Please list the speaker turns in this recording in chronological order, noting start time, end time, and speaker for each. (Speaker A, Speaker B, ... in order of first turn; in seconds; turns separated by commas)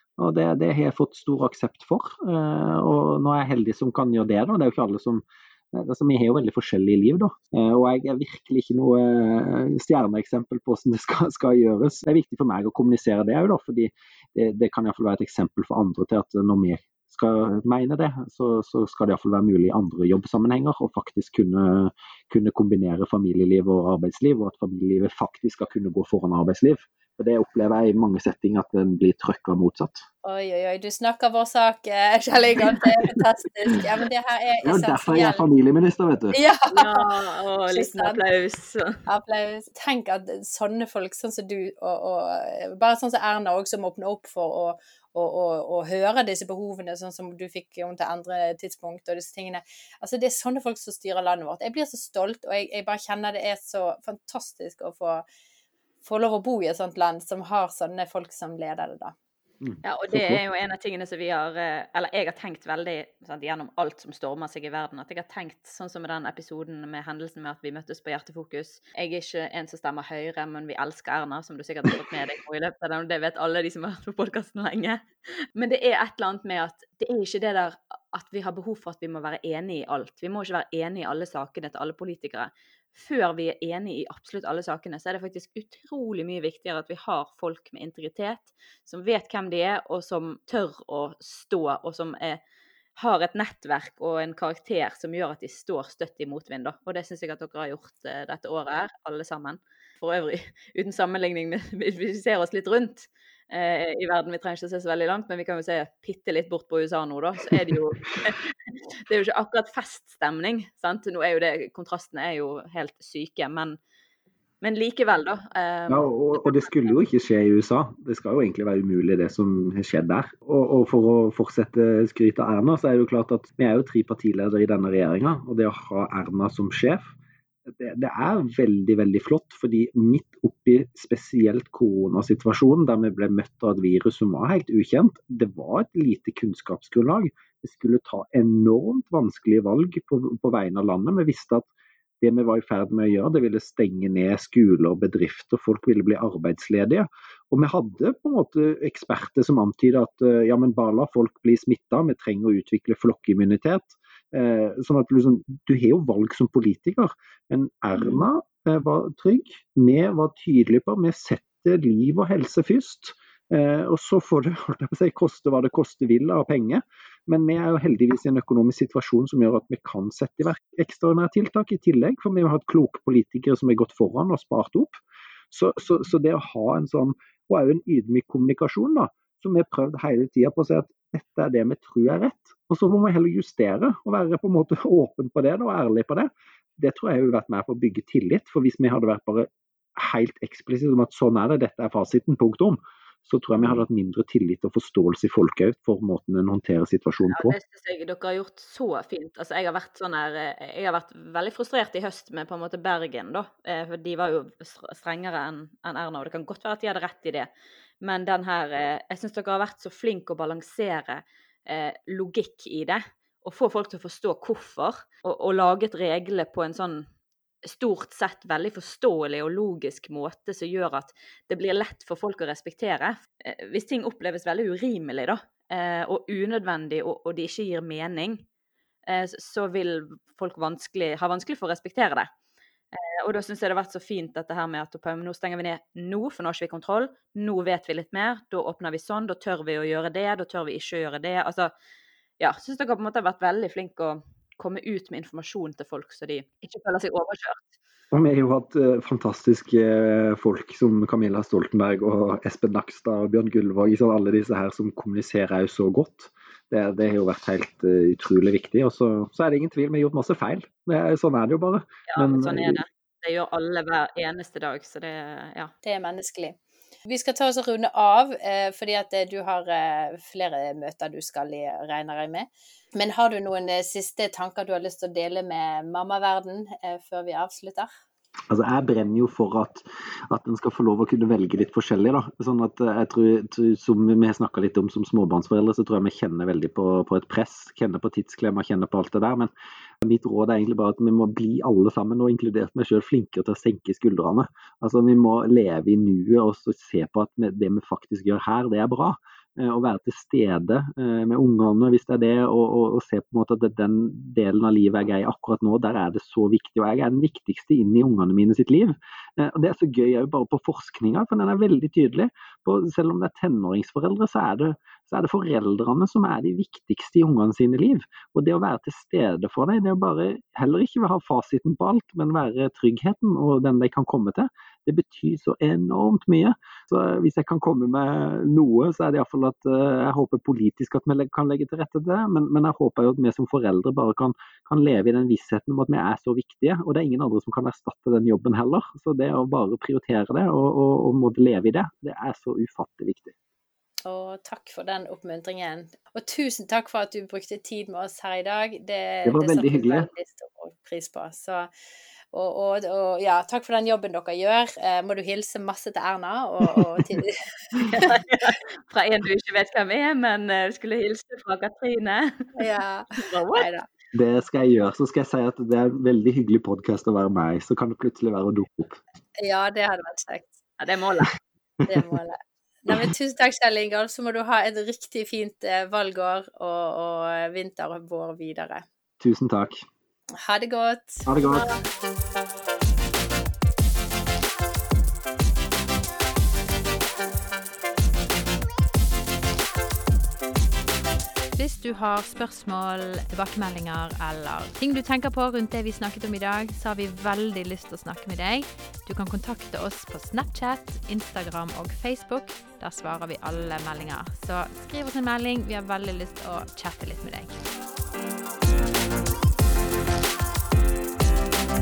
Speaker A: 0.2-30.0, Speaker B: 30.2-35.5, Speaker A: 34.6-36.4, Speaker B: 36.3-37.1, Speaker C: 36.7-39.0, Speaker B: 37.7-38.2, Speaker B: 39.0-55.2, Speaker B: 56.0-59.1, Speaker A: 59.6-60.4, Speaker C: 59.8-75.0, Speaker C: 75.5-92.4, Speaker C: 93.0-113.8, Speaker C: 114.6-116.9, Speaker A: 115.9-127.1, Speaker A: 127.8-141.7, Speaker A: 142.2-175.0, Speaker A: 175.5-197.6, Speaker C: 197.3-207.5, Speaker C: 208.0-217.1, Speaker C: 217.6-228.4, Speaker C: 229.1-232.3, Speaker C: 232.9-241.7, Speaker C: 242.4-247.7, Speaker A: 248.1-262.8, Speaker C: 262.1-265.7, Speaker B: 265.8-277.9, Speaker A: 278.5-289.5, Speaker A: 290.0-343.3, Speaker B: 344.0-351.7, Speaker A: 349.2-350.1, Speaker B: 352.3-358.2, Speaker A: 356.7-357.2, Speaker C: 357.9-362.6, Speaker B: 362.6-363.9, Speaker C: 363.1-363.7, Speaker A: 364.1-369.0, Speaker B: 369.4-370.6, Speaker C: 370.8-371.3, Speaker B: 371.9-378.8, Speaker A: 379.2-379.8, Speaker B: 380.4-381.8, Speaker A: 381.2-381.7, Speaker B: 391.6-407.6